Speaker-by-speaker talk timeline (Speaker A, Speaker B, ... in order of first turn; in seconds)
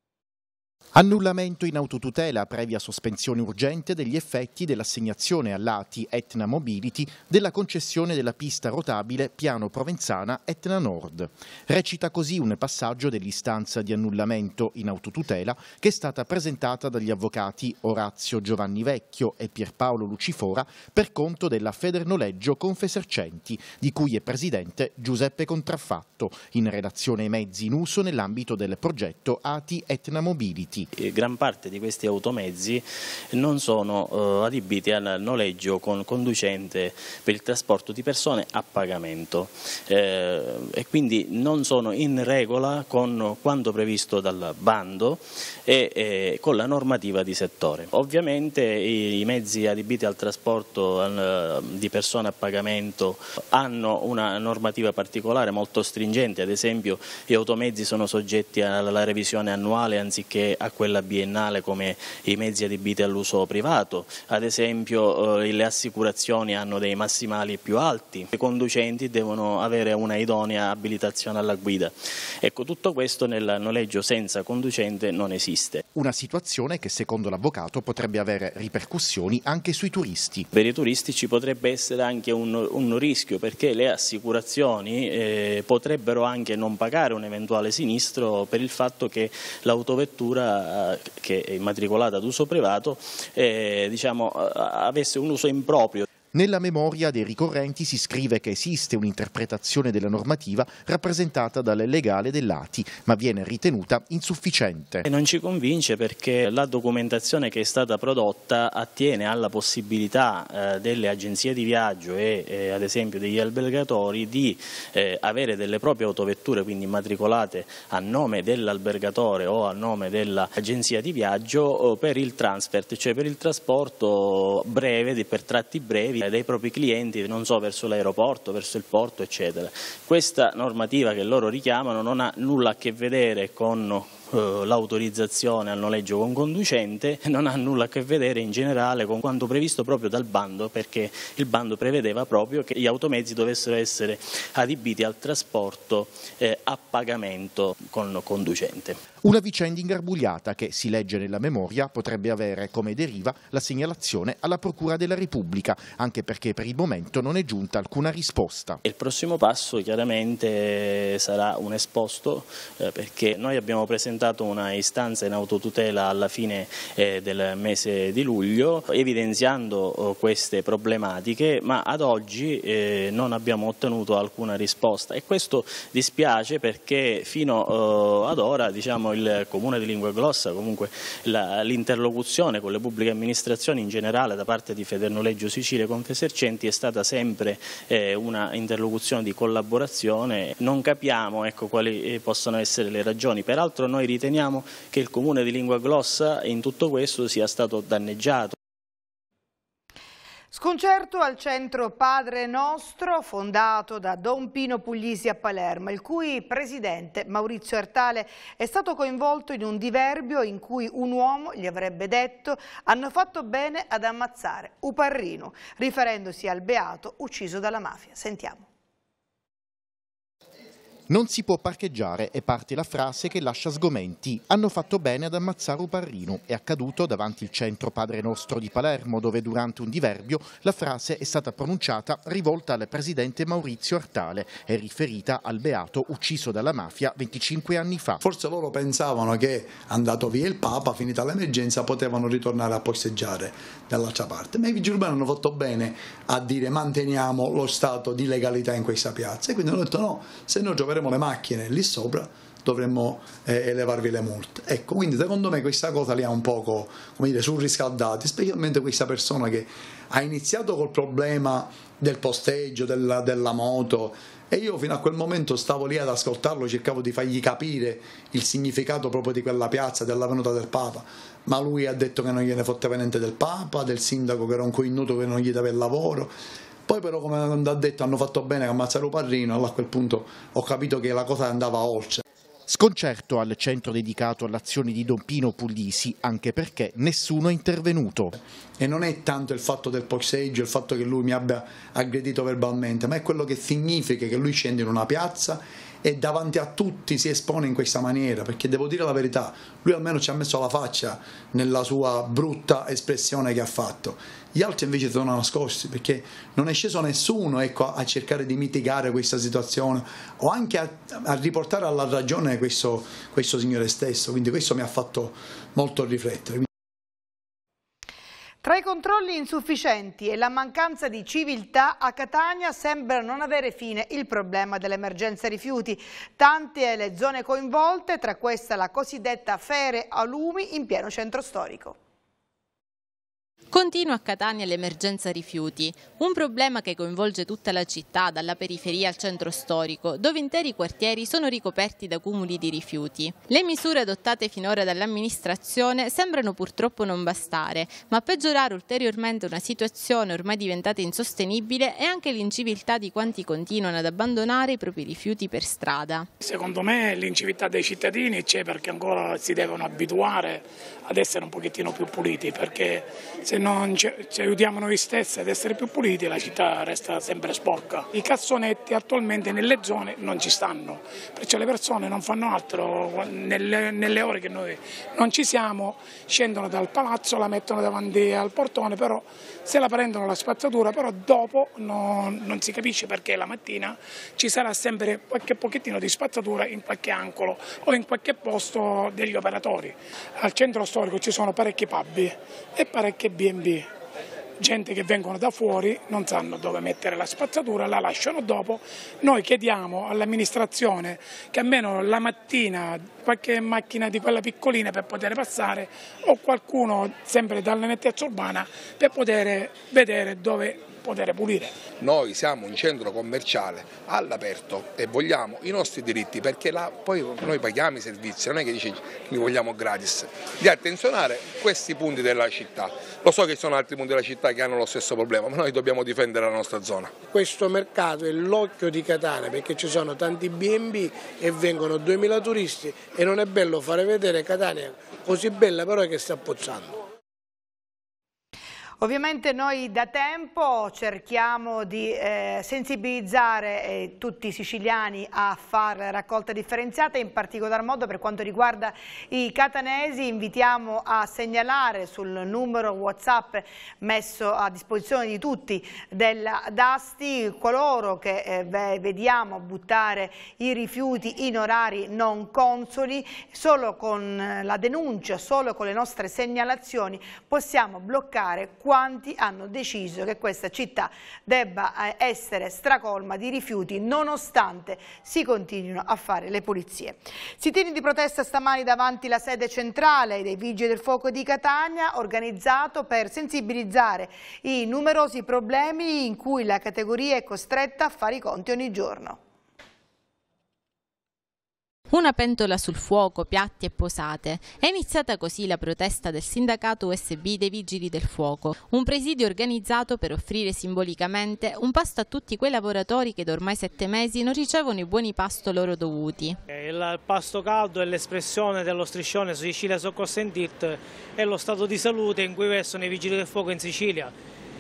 Speaker A: 0.9-30.9, 75.9-80.5, 96.3-105.0, 149.2-158.8, 221.1-238.2, 282.7-288.4
Speaker B: 31.0-75.8, 80.5-96.1, 105.1-149.0, 158.8-198.6
Speaker C: 200.5-218.7, 318.6-332.0, 439.0-489.4
Speaker D: 238.2-276.3, 276.9-282.2, 288.8-316.7
Speaker E: 333.7-356.3, 492.1-506.6
Speaker F: 356.4-393.9, 394.6-411.8
Speaker G: 412.0-427.2
Speaker H: 427.2-437.0
Speaker I: 506.7-514.3